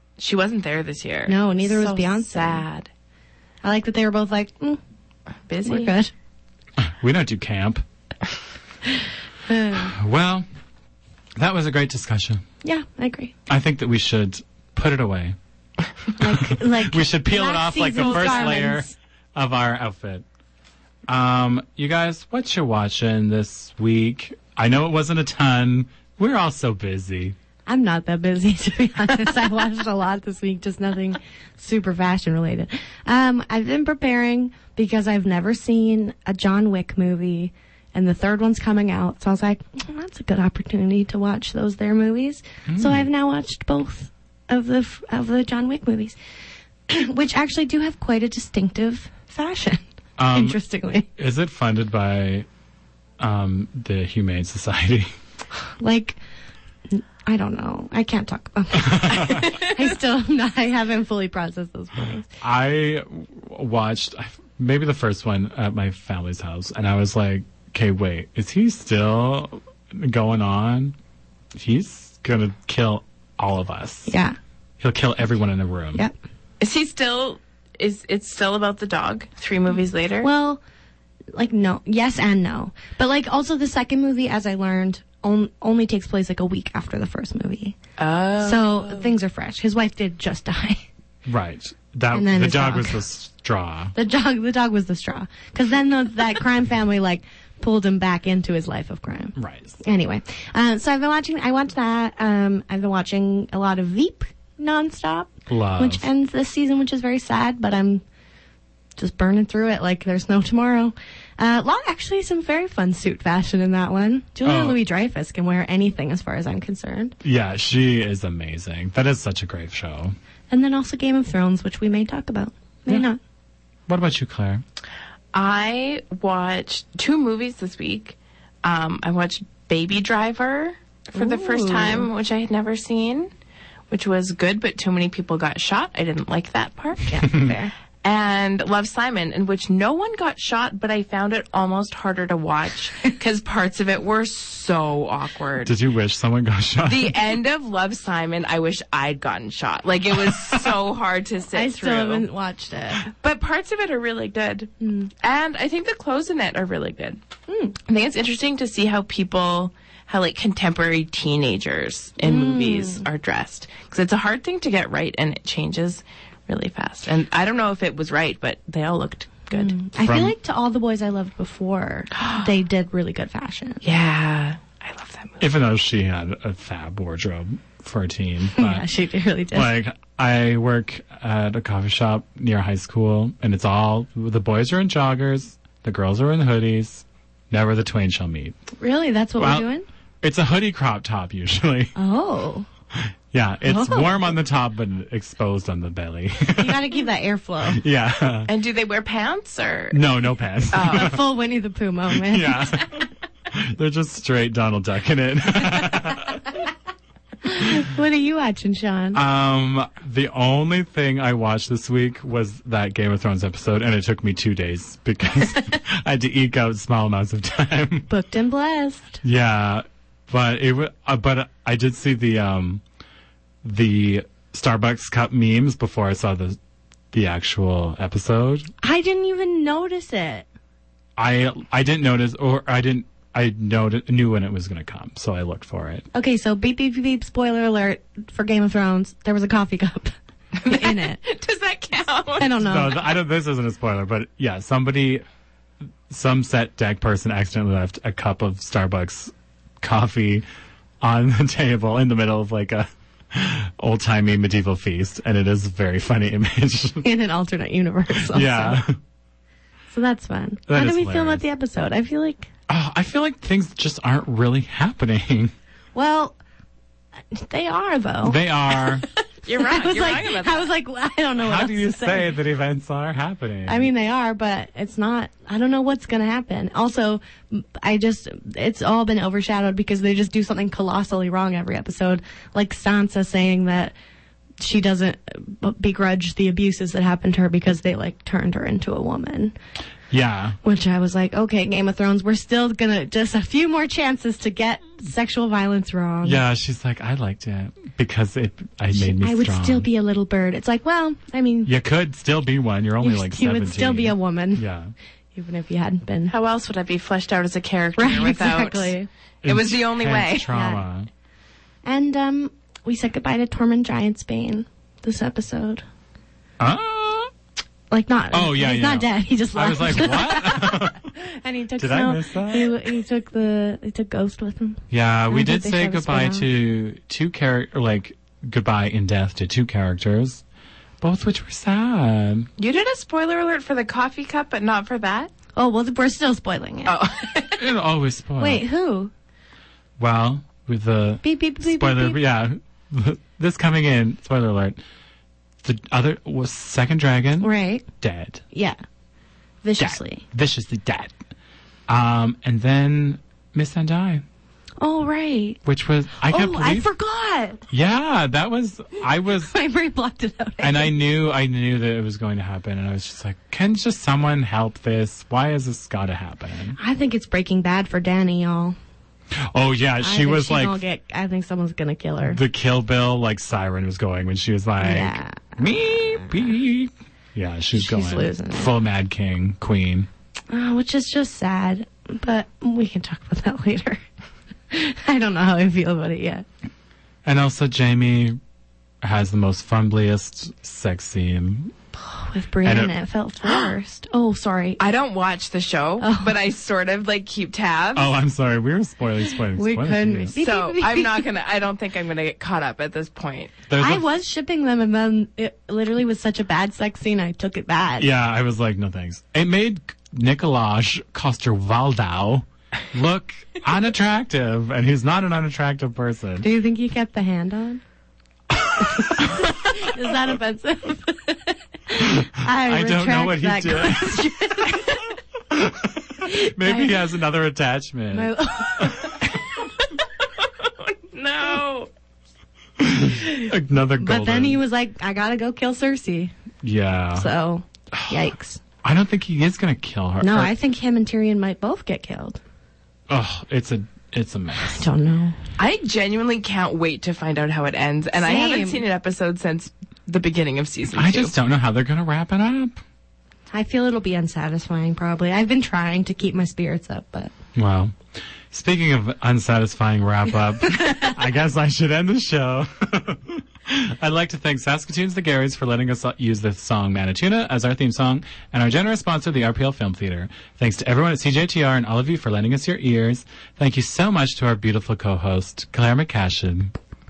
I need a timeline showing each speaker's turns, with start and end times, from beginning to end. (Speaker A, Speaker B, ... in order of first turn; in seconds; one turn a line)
Speaker A: 0.2-2.9
Speaker B: 1.3-2.7
Speaker B: 3.6-4.8
Speaker A: 5.5-5.9
Speaker B: 5.6-6.1
Speaker C: 6.8-7.8
Speaker B: 9.5-9.9
Speaker C: 9.7-10.5
Speaker C: 11.4-12.4
Speaker B: 12.6-13.3
Speaker C: 13.5-15.4
Speaker B: 16.2-18.9
Speaker C: 16.2-20.2
Speaker A: 17.9-18.6
Speaker C: 21.1-27.4
Speaker B: 27.7-46.2
Speaker C: 42.7-43.1
Speaker B: 46.9-51.1
Speaker C: 50.2-50.6
Speaker C: 51.2-52.5
Speaker C: 53.2-55.1
Speaker B: 55.8-56.2
Speaker B: 56.9-62.3
Speaker C: 58.7-59.5
Speaker C: 62.4-71.0
Speaker C: 71.5-74.2
Speaker B: 74.1-74.4
Speaker C: 74.8-76.0
Speaker A: 76.6-80.3
Speaker B: 80.2-80.6
Speaker B: 81.3-87.8
Speaker A: 88.0-89.1
Speaker B: 88.4-90.8
Speaker C: 91.3-93.9
Speaker B: 92.1-93.0
Speaker B: 93.9-108.0
Speaker C: 99.4-99.8
Speaker C: 105.5-106.1
Speaker B: 109.0-117.2
Speaker C: 114.4-114.8
Speaker C: 117.2-120.2
Speaker B: 120.5-123.2
Speaker C: 123.9-124.6
Speaker A: 125.3-133.3
Speaker B: 131.2-132.1
Speaker A: 133.9-137.5
Speaker B: 137.1-137.7
Speaker C: 137.3-137.5
Speaker A: 138.0-145.7
Speaker C: 145.6-147.2
Speaker A: 146.9-152.3
Speaker B: 151.5-153.1
Speaker A: 153.1-157.2
Speaker B: 154.8-155.1
Speaker B: 157.5-157.8
Speaker A: 157.9-169.8
Speaker B: 162.2-163.1
Speaker B: 169.5-173.8
Speaker C: 170.0-170.3
Speaker A: 172.2-172.4
Speaker A: 173.8-175.4
Speaker C: 175.4-178.9
Speaker B: 178.5-179.7
Speaker C: 179.5-188.6
Speaker B: 188.8-189.9
Speaker C: 189.4-189.7
Speaker C: 190.2-191.9
Speaker B: 192.0-192.7
Speaker C: 192.9-196.9
Speaker B: 193.7-194.3
Speaker B: 196.5-197.8
Speaker C: 197.7-198.5
Speaker A: 198.5-200.0
Speaker C: 199.9-201.2
Speaker A: 200.7-201.2
Speaker B: 200.8-202.9
Speaker C: 202.1-206.6
Speaker B: 207.4-209.2
Speaker C: 209.1-218.1
Speaker B: 218.1-219.2
Speaker C: 219.2-222.8
Speaker C: 223.6-226.6
Speaker C: 227.1-228.7
Speaker B: 228.8-230.5
Speaker C: 231.2-236.1
Speaker B: 236.1-240.1
Speaker A: 240.6-242.9
Speaker B: 240.7-241.2
Speaker B: 242.4-243.0
Speaker C: 242.6-245.2
Speaker C: 246.1-250.4
Speaker C: 251.0-257.1
Speaker B: 257.0-258.8
Speaker C: 258.3-259.0
Speaker B: 259.9-262.5
Speaker C: 260.7-261.4
Speaker C: 262.7-265.5
Speaker B: 265.9-266.4
Speaker B: 267.3-268.4
Speaker C: 268.2-269.1
Speaker A: 269.4-270.7
Speaker B: 269.6-272.4
Speaker C: 271.4-273.9
Speaker B: 273.7-283.9
Speaker B: 284.6-289.5
Speaker C: 290.1-290.6
Speaker B: 290.6-296.4
Speaker C: 296.2-299.9
Speaker B: 298.9-301.7
Speaker C: 301.6-304.9
Speaker B: 303.0-304.6
Speaker B: 305.4-306.3
Speaker A: 306.3-310.5
Speaker B: 308.0-309.1
Speaker C: 309.4-311.1
Speaker B: 310.5-310.8
Speaker B: 311.8-315.8
Speaker C: 316.6-317.3
Speaker B: 317.9-326.5
Speaker C: 318.3-321.1
Speaker C: 321.8-322.7
Speaker C: 324.9-330.4
Speaker C: 331.0-332.5
Speaker A: 332.6-335.3
Speaker B: 335.6-337.0
Speaker A: 336.9-337.6
Speaker C: 337.6-338.6
Speaker B: 338.4-339.1
Speaker C: 340.0-344.8
Speaker B: 341.2-342.2
Speaker C: 345.6-348.4
Speaker B: 347.4-347.9
Speaker B: 348.5-348.8
Speaker B: 349.6-350.2
Speaker C: 349.8-351.1
Speaker C: 351.9-354.2
Speaker B: 354.8-355.6
Speaker C: 355.6-356.9
Speaker B: 356.2-357.6
Speaker C: 357.7-359.5
Speaker B: 359.5-360.9
Speaker C: 360.6-366.8
Speaker B: 366.8-368.8
Speaker C: 369.4-370.8
Speaker B: 370.0-372.4
Speaker C: 372.3-380.1
Speaker B: 374.8-375.6
Speaker B: 377.7-378.7
Speaker B: 380.5-384.0
Speaker B: 384.7-386.4
Speaker C: 387.2-388.4
Speaker C: 389.0-391.7
Speaker B: 392.0-394.8
Speaker C: 392.6-393.0
Speaker A: 394.8-398.1
Speaker B: 396.0-396.4
Speaker C: 398.0-400.4
Speaker B: 399.6-401.3
Speaker A: 400.4-403.5
Speaker C: 403.7-404.1
Speaker B: 403.8-408.1
Speaker C: 408.0-416.5
Speaker B: 416.4-417.8
Speaker C: 418.6-419.5
Speaker B: 418.8-425.1
Speaker C: 422.0-424.6
Speaker C: 425.5-429.2
Speaker B: 426.2-426.9
Speaker B: 428.1-429.2
Speaker A: 430.4-431.9
Speaker C: 432.8-434.6
Speaker B: 434.0-436.3
Speaker C: 436.6-437.3
Speaker B: 437.1-438.6
Speaker C: 437.9-438.3
Speaker C: 438.8-440.5
Speaker B: 440.2-442.4
Speaker C: 443.1-444.9
Speaker B: 444.6-445.4
Speaker A: 445.6-451.3
Speaker B: 448.2-448.8
Speaker C: 450.9-452.8
Speaker B: 453.5-457.3
Speaker C: 457.6-458.0
Speaker C: 458.5-476.7
Speaker B: 460.7-461.2